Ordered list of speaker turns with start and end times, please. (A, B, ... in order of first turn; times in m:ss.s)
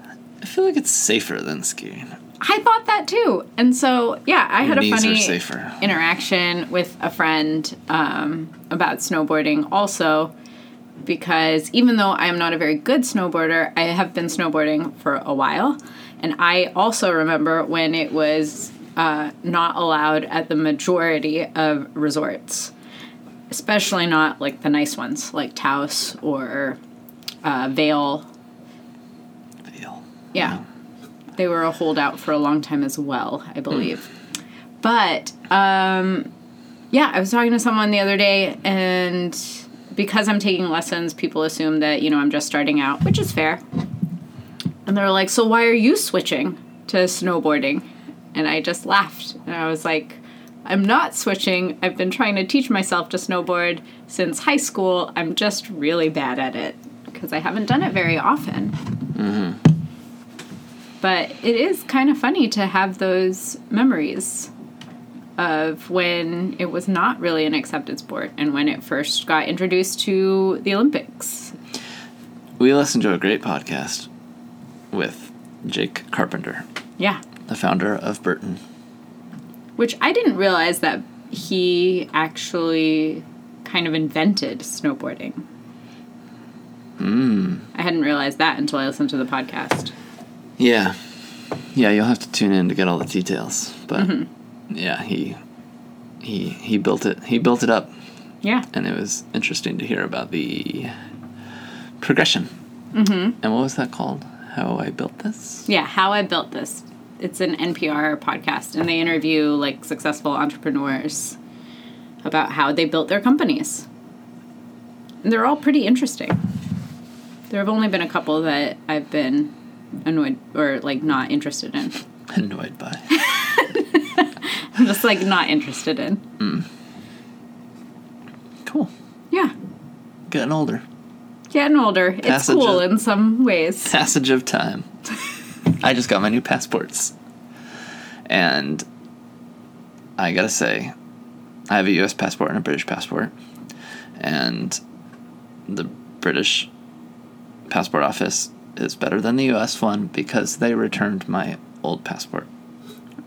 0:00.4-0:02.1 A
0:02.4-0:10.3 B
0:04.6-0:05.8 A
0:11.0-0:22.7 B
0:23.5-0:26.8 B
0:27.4-0:28.2 B
0:29.7-0:30.6 A
0:30.3-0:30.6 B
0:31.4-0:34.1 B
0:34.8-0:36.3 B
0:36.9-0:43.6 B
0:44.8-0:58.8 B
0:59.1-0:59.6 A
1:01.0-1:04.5 B
1:05.4-1:11.5 B
1:12.6-1:14.1 A
1:14.9-1:16.6 A
1:17.5-1:18.6 A
1:19.8-1:25.4 B
1:27.0-1:27.7 A
1:27.7-1:29.9 B
1:30.6-1:30.9 A
1:31.7-1:34.1 A
1:34.0-1:34.3 B
1:34.7-1:35.4 A
1:36.2-1:37.9 A
1:38.7-1:40.9 A
1:42.0-1:42.5 A
1:42.9-1:43.4 B
1:43.4-1:45.6 A
1:45.7-1:51.4 B
1:52.2-1:53.8 B
1:55.2-1:56.4 B
1:57.5-1:59.5 B
2:00.0-2:01.9 B
2:02.3-2:03.1 A
2:03.1-2:06.2 B
2:06.4-2:06.6 A
2:08.6-2:08.9 A
2:10.3-2:10.8 A
2:11.5-2:13.9 B
2:12.2-2:12.9 A
2:13.8-2:14.9 A
2:15.8-2:17.1 A
2:18.3-2:18.8 A
2:20.2-2:20.9 A
2:21.7-2:23.3 A
2:24.2-2:24.8 A
2:25.7-2:26.7 A
2:27.7-2:32.5 A